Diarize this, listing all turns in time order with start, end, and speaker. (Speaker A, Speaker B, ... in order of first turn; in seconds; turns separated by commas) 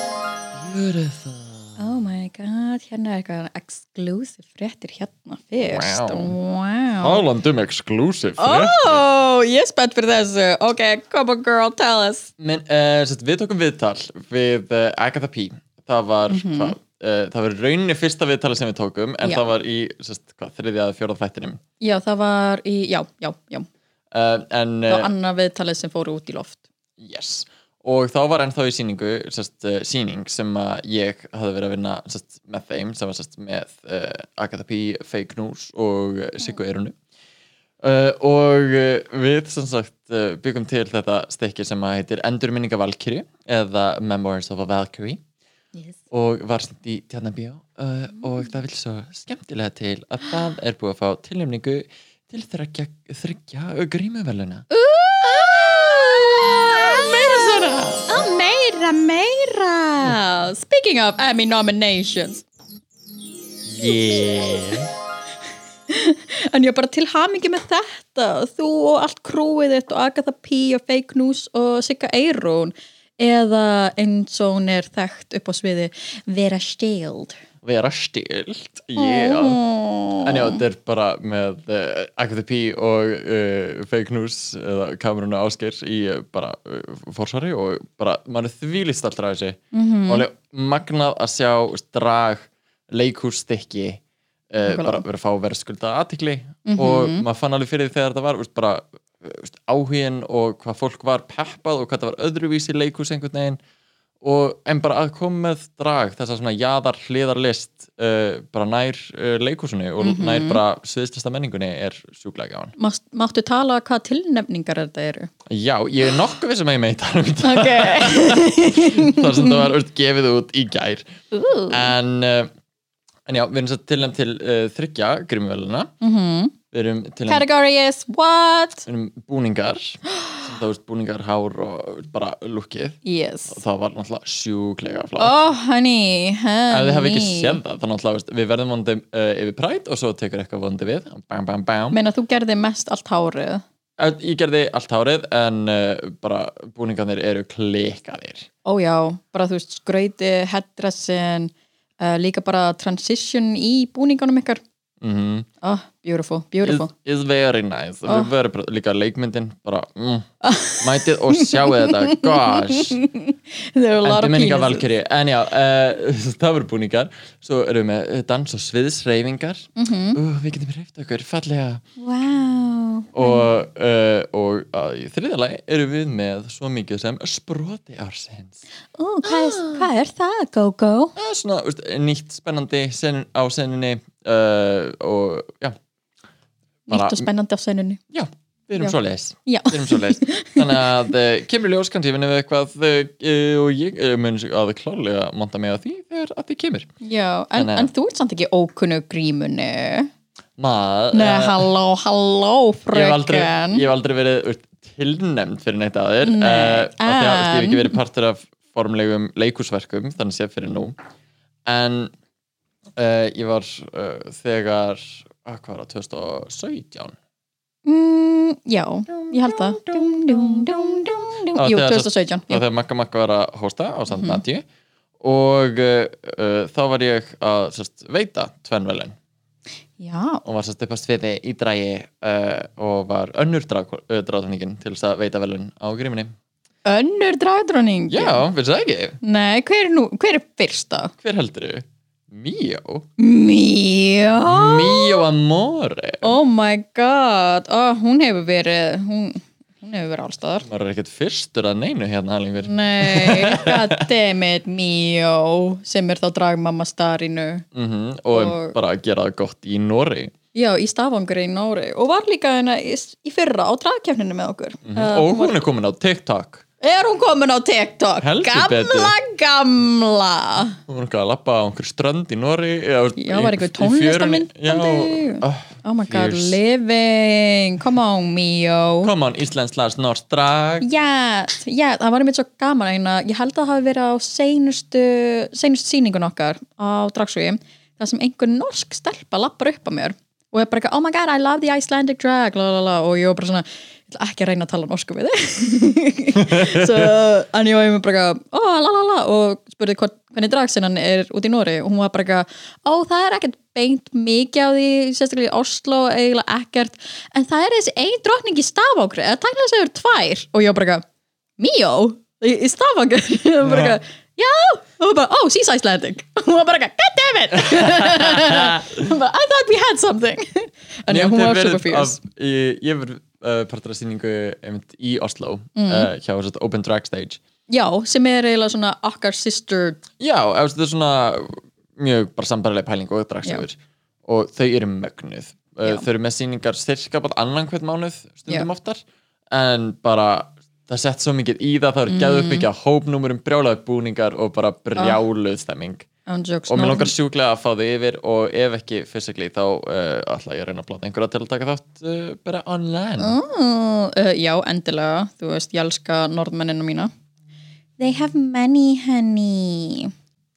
Speaker A: 0.5-1.8, Speaker B: 1.8-7.2, Speaker A: 5.6-6.3, Speaker A: 7.0-9.0, Speaker B: 8.4-12.3, Speaker A: 12.4-21.6, Speaker B: 16.3-16.7, Speaker B: 19.2-19.5, Speaker B: 21.8-23.6, Speaker A: 24.1-25.1, Speaker B: 24.9-26.6, Speaker A: 27.0-37.0, Speaker A: 37.8-45.2, Speaker A: 46.1-54.7, Speaker B: 54.7-62.4, Speaker A: 55.2-58.2, Speaker A: 63.6-64.9, Speaker B: 63.8-64.7, Speaker B: 65.9-77.4, Speaker A: 77.6-79.6, Speaker B: 79.0-80.6, Speaker A: 80.2-103.6, Speaker B: 89.7-90.2, Speaker B: 94.6-95.0, Speaker B: 96.6-97.2, Speaker A: 104.2-112.7, Speaker B: 110.0-110.6, Speaker B: 112.8-115.3, Speaker A: 115.5-121.0, Speaker B: 117.4-119.7, Speaker B: 121.3-121.9, Speaker A: 121.7-122.5, Speaker A: 123.2-125.9, Speaker B: 126.0-126.5, Speaker A: 126.7-127.5, Speaker B: 127.3-128.8, Speaker A: 128.8-133.0, Speaker B: 133.0-133.6, Speaker A: 133.5-135.3, Speaker B: 135.2-137.6, Speaker A: 136.7-142.0, Speaker B: 141.9-143.6, Speaker A: 144.0-148.5, Speaker B: 148.6-154.6, Speaker A: 155.0-155.5, Speaker B: 155.6-156.9, Speaker A: 156.6-160.3, Speaker B: 160.4-164.8, Speaker A: 160.8-163.0, Speaker A: 164.0-171.8, Speaker B: 169.8-170.2, Speaker B: 172.0-173.5, Speaker A: 173.1-178.6, Speaker B: 179.0-181.1, Speaker A: 179.2-179.9, Speaker A: 181.2-185.8, Speaker B: 186.9-188.0, Speaker A: 186.9-187.3, Speaker A: 188.1-196.9, Speaker B: 188.8-190.8, Speaker B: 197.0-200.1, Speaker A: 197.6-197.9, Speaker A: 200.6-201.7, Speaker B: 201.1-203.8, Speaker A: 202.9-210.9, Speaker B: 206.2-208.0, Speaker A: 211.7-212.1, Speaker A: 212.9-217.2, Speaker B: 217.8-222.6, Speaker A: 219.1-224.6, Speaker B: 224.1-224.4, Speaker A: 225.2-229.1, Speaker B: 230.0-230.4, Speaker A: 230.4-236.3, Speaker B: 236.8-238.4, Speaker A: 238.1-239.2, Speaker B: 239.2-241.1, Speaker A: 241.2-243.1, Speaker B: 243.2-245.2, Speaker A: 244.4-246.3, Speaker B: 246.2-250.7, Speaker A: 250.6-254.1, Speaker B: 252.6-257.6, Speaker A: 257.7-260.3, Speaker B: 258.3-258.8, Speaker B: 260.5-265.5, Speaker A: 264.8-266.6, Speaker B: 266.8-270.8, Speaker A: 268.2-269.1, Speaker A: 270.9-276.6, Speaker B: 273.2-279.1, Speaker A: 279.0-280.9, Speaker B: 280.8-311.0, Speaker A: 296.4-297.1, Speaker B: 311.6-322.2, Speaker A: 313.6-314.0, Speaker A: 317.6-319.0, Speaker A: 321.1-327.4, Speaker B: 325.8-326.1, Speaker B: 327.7-330.0, Speaker A: 330.2-346.1, Speaker B: 342.1-342.7, Speaker B: 346.3-347.1, Speaker A: 346.7-353.4, Speaker B: 353.2-357.1, Speaker B: 358.0-360.1